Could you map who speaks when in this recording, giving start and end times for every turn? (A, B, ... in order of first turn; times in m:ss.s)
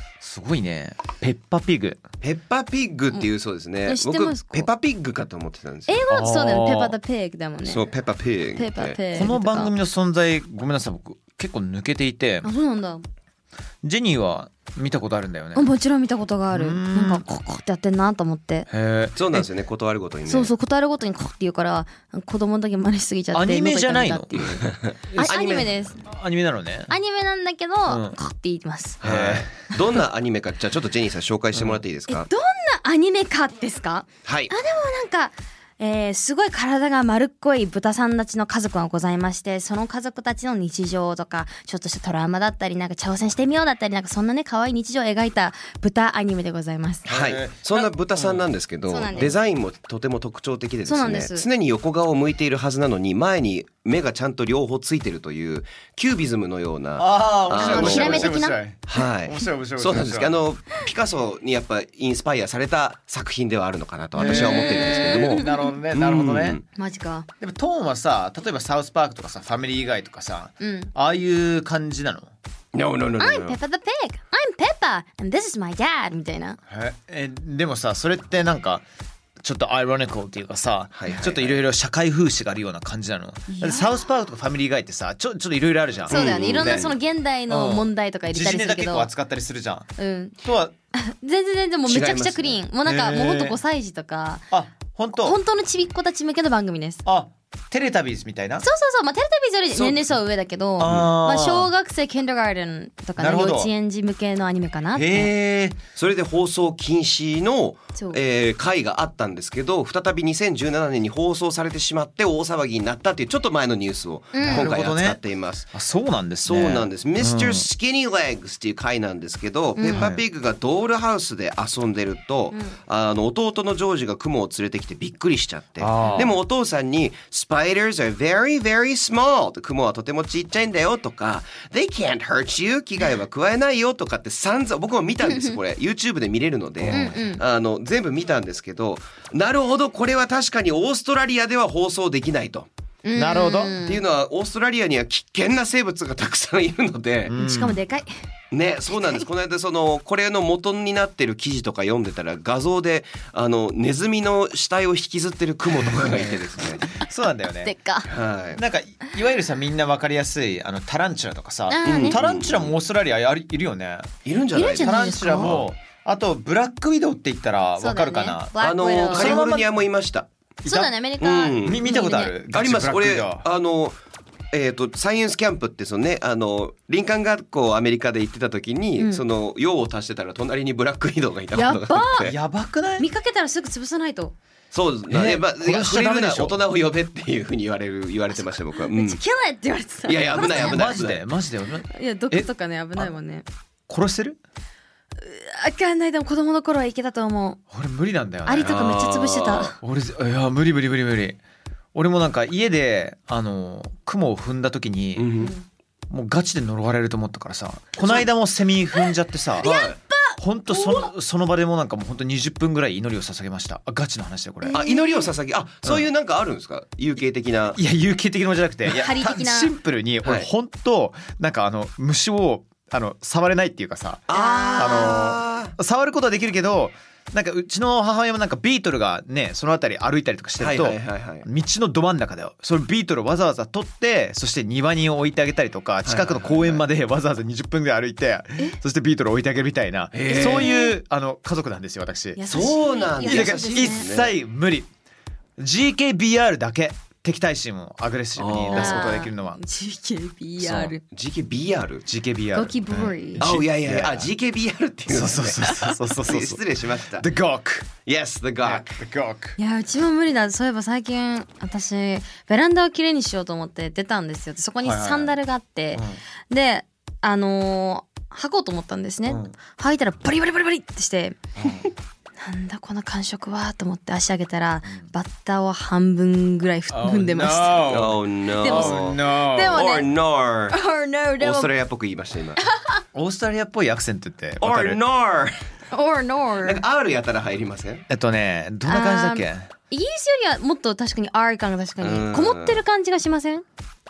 0:00.2-0:02.0 A
0:02.2-0:06.0 B
0:03.9-0:04.7 C
0:05.9-0:07.9 C
0:06.1-0:06.9 A
0:07.6-0:09.0 B
0:08.6-0:09.7 C
0:09.1-0:12.5 A
0:12.4-0:13.1 C
0:13.8-0:15.6 A
0:15.5-0:18.7 C
0:16.5-0:17.2 A
0:18.7-0:19.5 A
0:19.2-0:20.5 B
0:20.3-0:26.0 C
0:23.3-0:26.9 A
0:24.7-0:25.7 B
0:26.9-0:29.0 C
0:27.9-0:28.2 A
0:29.0-0:29.5 A
0:29.0-0:32.3 B
0:31.6-0:31.8 A
0:32.1-0:47.1 C
0:34.2-0:34.5 B
0:47.0-0:48.4 A
0:47.1-0:58.3 B
0:48.9-0:49.3 C
0:50.8-0:51.4 C
0:57.0-1:00.4 A
0:57.5-0:58.6 C
0:58.9-1:06.6 B
1:04.2-1:06.6 A
1:04.2-1:05.7 C
1:06.8-1:07.3 C
1:07.4-1:12.3 A
1:10.6-1:10.9 C
1:12.7-1:13.6 B
1:13.2-1:16.6 C
1:16.7-1:18.8 A
1:19.4-1:26.9 A
1:20.9-1:21.6 B
1:23.5-1:24.0 C
1:26.1-1:29.1 C
1:26.1-1:26.9 B
1:27.5-1:29.9 A
1:30.0-1:30.4 C
1:30.4-1:30.7 A
1:30.9-1:34.5 C
1:31.8-1:32.6 B
1:32.8-1:33.6 A
1:34.5-1:35.4 A
1:35.1-1:37.0 C
1:37.0-1:38.6 A
1:38.6-1:45.3 C
1:39.7-1:40.0 B
1:40.8-1:41.7 A
1:40.8-1:41.1 B
1:43.2-1:43.7 A
1:44.9-1:45.8 A
1:46.0-1:55.7 B
1:54.3-1:54.7 C
1:54.4-1:55.2 A
1:55.7-1:57.7 A
1:56.4-2:22.7 B
1:59.8-2:00.1 C
1:59.9-2:00.2 A
2:05.8-2:06.4 A
2:06.0-2:06.3 C
2:15.2-2:15.6 C
2:16.8-2:17.2 A
2:16.9-2:17.4 C
2:23.0-2:24.0 C
2:23.1-2:23.8 A
2:23.8-2:27.3 B
2:27.3-2:27.8 A
2:27.4-2:28.1 C
2:28.5-2:36.8 B
2:35.8-2:37.7 A
2:37.6-2:38.1 C
2:38.1-2:38.6 B
2:38.6-2:44.1 A
2:41.7-2:42.2 C
2:41.8-2:42.7 B
2:44.2-2:45.7 B
2:44.5-2:45.6 C
2:44.8-2:49.8 A
2:47.8-2:49.4 C
2:48.6-2:50.3 B
2:50.6-2:50.9 A
2:50.7-2:52.3 C
2:51.2-2:51.9 B
2:51.6-2:53.4 A
2:52.5-2:54.0 B
2:54.5-3:02.3 B
3:01.5-3:02.3 C
3:02.2-3:03.1 A
3:03.0-3:04.3 C
3:04.7-3:09.2 B
3:05.1-3:06.6 A
3:08.8-3:11.0 C
3:10.1-3:11.2 B
3:10.3-3:13.1 A
3:11.9-3:13.4 C
3:13.9-3:14.4 A
3:15.2-3:17.6 C
3:17.7-3:18.9 A
3:18.4-3:19.8 C
3:18.6-3:19.7 B
3:19.8-3:21.4 A
3:21.9-3:25.4 A
3:25.2-3:25.5 B
3:26.1-3:29.7 A
3:28.0-3:28.2 B
3:29.6-3:31.1 C
3:29.6-3:30.0 B
3:30.4-3:34.8 A
3:34.6-3:35.3 C
3:34.7-3:37.8 B
3:37.7-4:02.7 A
3:38.9-3:39.7 C
3:44.3-3:45.7 B
3:44.3-3:45.2 C
3:50.6-3:51.4 B
3:56.0-3:56.8 B
4:00.1-4:00.7 B
4:00.3-4:01.0 C
4:02.4-4:04.0 C
4:02.5-4:04.4 B
4:03.2-4:04.9 A
4:05.6-4:09.6 A
4:08.4-4:09.2 B
4:08.7-4:11.0 C
4:10.6-4:10.9 A
4:11.1-4:12.0 B
4:12.1-4:14.3 A
4:12.5-4:13.5 C
4:13.4-4:17.3 B
4:15.1-4:17.9 A
4:15.7-4:15.9 C
4:18.0-4:18.9 B
4:18.6-4:19.6 A
4:19.6-4:31.4 C
4:24.8-4:25.4 A
4:25.9-4:26.2 A
4:29.3-4:29.6 A
4:31.6-4:31.9 A
4:32.4-4:37.9 C
4:36.9-4:39.8 A
4:37.8-4:40.8 B
4:38.6-4:40.1 C
4:40.7-4:41.7 C
4:41.4-4:42.6 B
4:42.7-4:43.0 C
4:43.1-4:45.0 A
4:44.6-4:45.6 B
4:45.9-4:46.8 C
4:46.6-4:48.0 B
4:48.1-4:49.7 A
4:48.8-4:53.6 C
4:52.0-4:52.8 B